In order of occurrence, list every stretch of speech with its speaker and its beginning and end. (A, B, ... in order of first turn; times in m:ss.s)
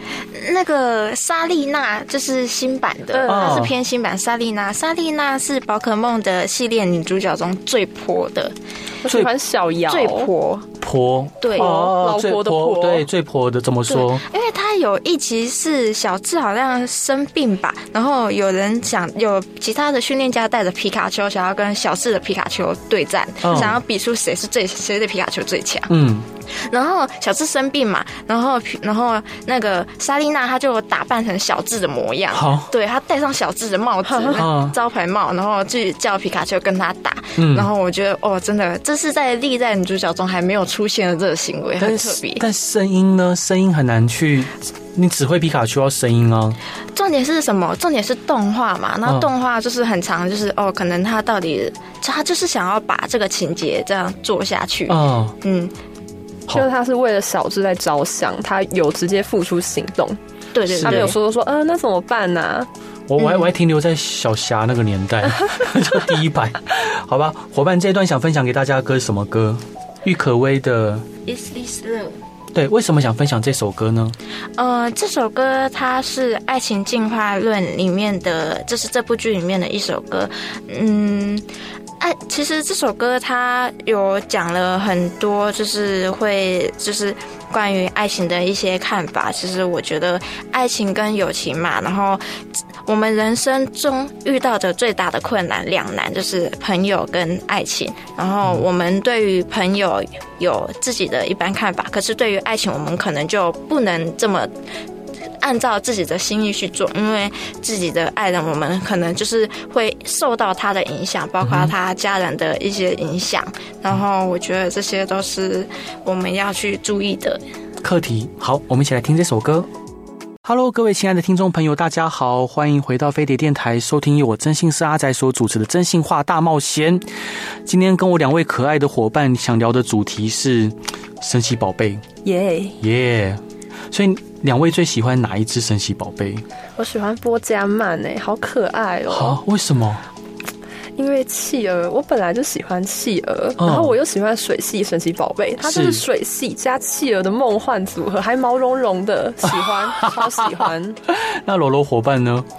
0:00.2-0:08.6 A
0:03.1-0:03.7 B
0:03.3-0:03.7 C
0:09.0-0:10.3 B
0:09.9-0:10.7 A
0:10.8-0:14.2 C
0:11.4-0:11.8 A
0:11.6-0:13.1 B
0:13.9-0:25.9 A
0:23.4-0:23.8 C
0:25.9-0:26.3 C
0:26.5-0:42.4 A
0:32.3-0:32.7 C
0:34.1-0:34.4 B
0:34.4-0:34.8 C
0:37.4-0:37.7 C
0:41.8-0:46.6 C
0:46.9-0:55.8 A
0:54.9-0:55.4 C
0:56.5-1:00.2 B
1:00.5-1:01.2 A
1:00.7-1:01.1 C
1:00.8-1:02.7 B
1:03.1-1:11.1 C
1:03.2-1:03.5 A
1:11.3-1:12.2 A
1:12.5-1:14.2 C
1:14.6-1:21.5 A
1:22.0-1:32.2 A
1:32.8-1:44.5 A
1:45.4-1:57.4 A
1:51.4-1:51.7 C
1:57.8-1:59.7 C
2:00.4-2:07.0 C
2:07.7-2:12.0 C
2:12.2-2:12.8 B
2:12.8-2:13.4 C
2:13.9-2:16.4 C
2:16.8-2:19.4 B
2:19.1-2:20.0 C
2:21.0-2:31.0 B
2:23.6-2:24.0 C
2:25.6-2:26.0 C
2:29.9-2:30.5 C
2:31.1-2:32.5 C